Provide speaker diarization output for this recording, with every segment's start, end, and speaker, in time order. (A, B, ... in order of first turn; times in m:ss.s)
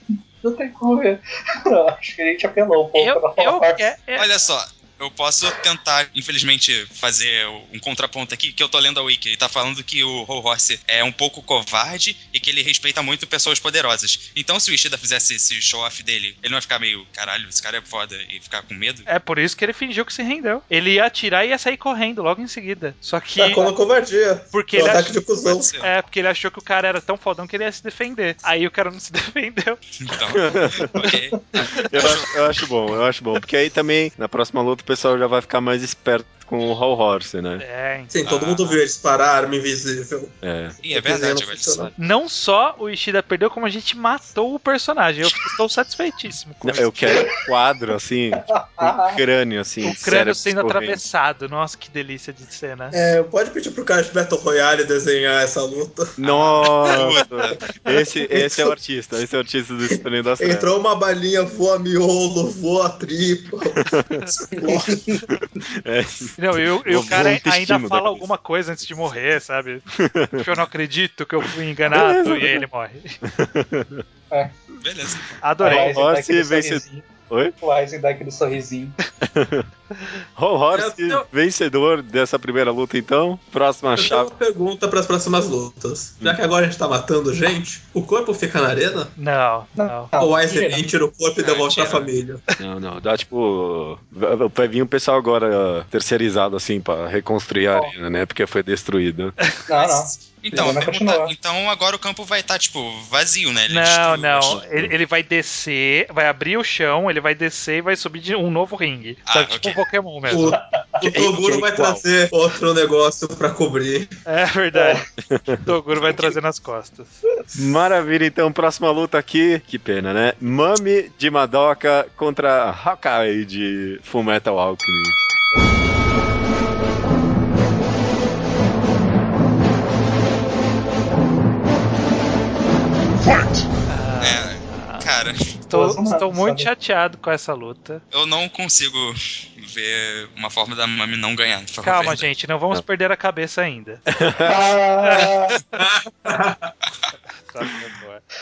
0:00.4-0:03.8 A
0:03.0-0:04.3 B
0:04.2-0:19.1 C
0:19.1-0:23.7 B
0:23.4-0:25.7 D
0:24.5-0:25.2 B
0:25.4-0:25.9 C
0:25.8-0:29.8 B
0:30.0-0:32.3 C
0:30.3-0:30.9 E
0:31.7-0:37.6 E
0:37.6-0:38.1 B
0:38.1-0:41.9 D
0:38.2-0:38.8 C
0:40.4-0:40.8 E
0:40.8-0:42.0 C
0:42.0-0:47.3 B
0:46.6-0:51.0 E
0:48.5-0:49.2 A
0:49.8-0:52.9 B
0:52.9-0:56.2 D
0:56.2-1:00.7 E
0:56.2-0:57.7 C
0:58.3-0:58.7 D
0:59.9-1:03.8 D
1:03.8-1:04.2 E
1:04.4-1:05.0 D
1:04.6-1:05.2 A
1:05.3-1:08.3 E
1:06.4-1:13.2 B
1:09.9-1:10.5 E
1:11.9-1:12.6 E
1:13.2-1:14.0 E
1:14.8-1:15.3 C
1:15.4-1:16.0 B
1:15.6-1:19.0 A
1:15.6-1:17.5 E
1:19.2-1:19.7 E
1:20.4-1:24.3 E
1:20.7-1:21.3 D
1:24.0-1:29.1 D
1:29.2-1:30.1 B
1:29.8-1:30.9 A
1:30.2-1:32.4 D
1:31.4-1:32.0 C
1:31.4-1:32.5 B
1:32.6-1:39.3 E
1:39.7-1:41.3 A
1:39.8-1:44.6 C
1:43.7-1:50.6 B
1:44.7-1:44.9 E
1:49.3-1:49.8 C
1:50.3-1:54.1 D
1:51.0-1:52.0 E
1:54.2-1:55.0 B
1:54.7-1:55.0 A
1:55.2-1:55.6 E
1:55.6-1:57.1 B
1:57.5-2:05.3 E
2:13.2-2:13.6 A
2:13.9-2:15.1 B
2:14.2-2:15.5 C
2:15.6-2:18.0 B
2:15.7-2:16.7 A
2:18.1-2:22.3 C
2:21.8-2:24.0 B
2:24.1-2:24.6 E
2:24.4-2:25.6 A
2:25.0-2:25.8 B
2:25.8-2:26.7 D
2:27.4-2:28.2 B